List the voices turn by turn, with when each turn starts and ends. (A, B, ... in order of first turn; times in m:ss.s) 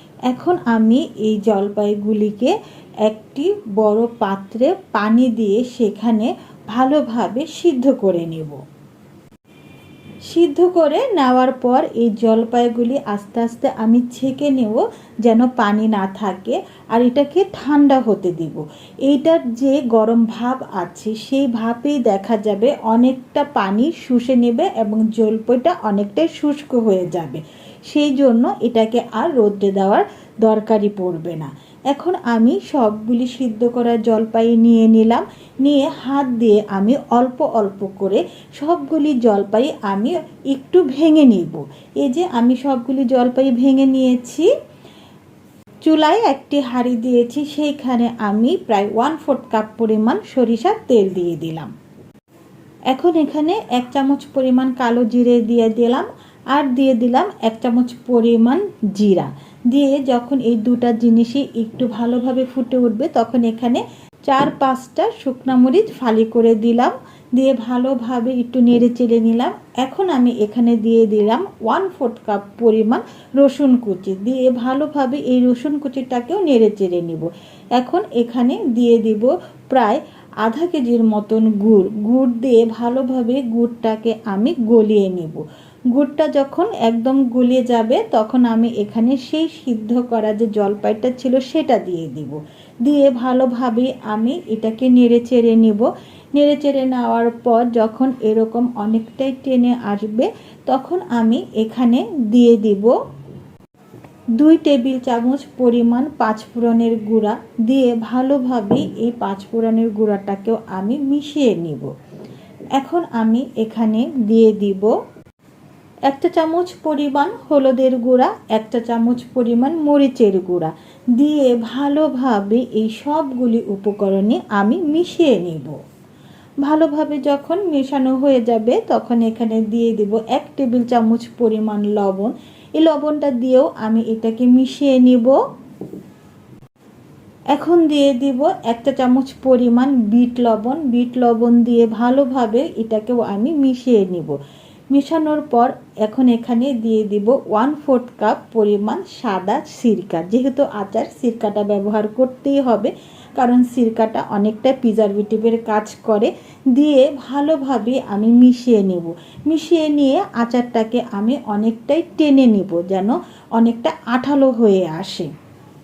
0:00.3-0:08.6 A
0:10.3-0:44.5 A
0:45.8-0:51.7 A
0:52.9-1:42.9 A
1:44.4-1:51.9 A
1:52.7-1:54.9 A
1:56.1-2:05.8 A
2:06.6-2:15.4 A
2:17.5-2:24.4 A
2:24.9-2:45.3 A